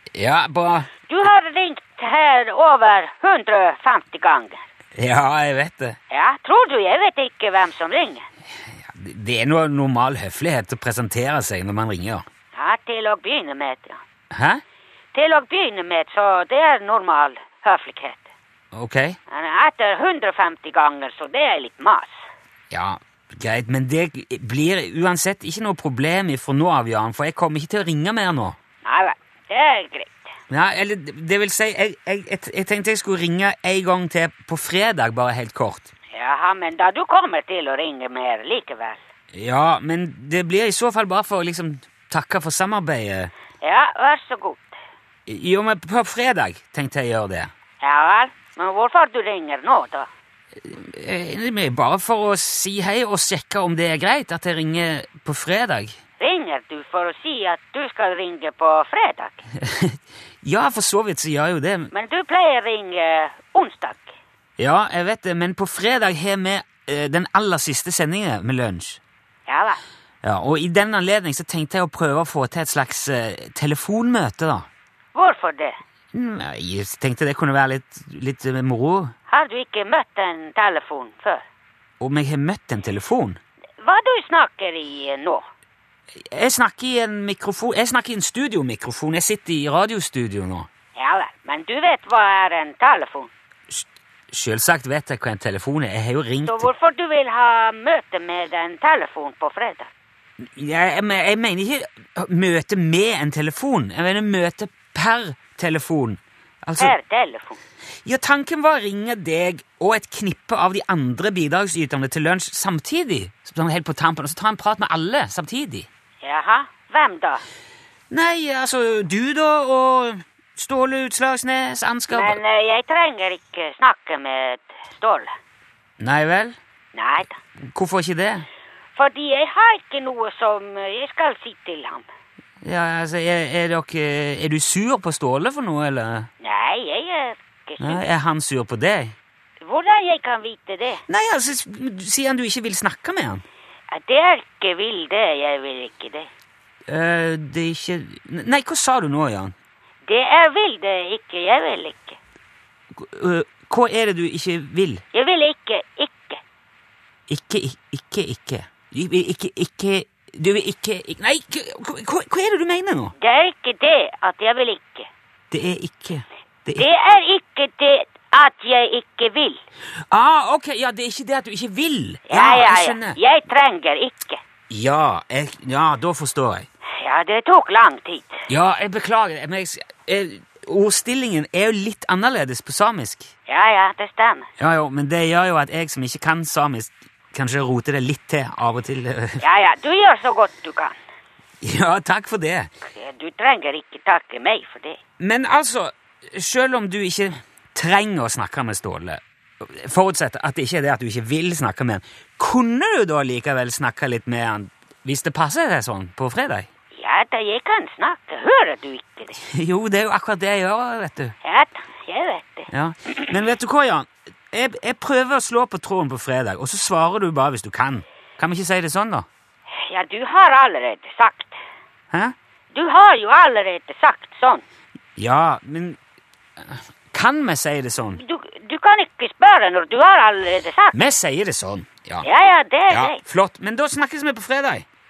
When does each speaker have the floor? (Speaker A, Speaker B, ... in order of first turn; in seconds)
Speaker A: 0.1-0.9, 5.0-6.0, 8.8-12.2, 14.3-14.6, 18.7-19.2, 22.7-28.6, 30.5-35.9, 39.3-43.3, 45.3-47.5, 50.6-56.0, 59.6-61.9, 64.6-69.0, 70.2-74.7, 76.1-79.1, 82.0-83.4, 86.2-90.7, 93.7-96.7, 100.4-107.0, 108.0-115.9, 118.1-122.4, 126.0-126.6, 127.7-128.5, 132.6-136.3, 137.8-139.2, 141.1-143.4, 146.9-149.5, 152.9-155.0, 157.3-163.1, 165.5-166.9, 170.1-173.2, 174.7-176.7, 178.5-183.3, 184.6-189.4, 191.6-192.7, 195.2-206.7, 209.4-211.3, 212.7-219.3, 225.2-226.0, 226.6-228.2, 230.9-232.3, 232.9-234.9
Speaker B: 1.1-4.6, 6.1-8.3, 12.5-14.0, 15.1-18.3, 19.3-22.2, 28.8-30.3, 36.1-39.0, 43.6-44.8, 47.8-50.1, 56.2-59.4, 61.9-64.1, 69.5-69.8, 75.2-75.8, 79.3-81.4, 83.8-85.4, 91.0-93.3, 96.4-99.9, 106.8-107.6, 116.2-117.4, 122.1-125.3, 126.9-127.4, 129.0-132.1, 136.4-138.0, 139.6-141.0, 143.9-146.3, 150.1-152.2, 155.1-156.4, 163.2-165.1, 166.8-169.6, 172.3-174.4, 177.0-178.4, 183.5-184.5, 189.4-190.9, 192.8-195.0, 207.0-209.4, 211.4-213.3, 219.7-221.6, 222.7-224.6, 228.1-231.0, 232.2-233.2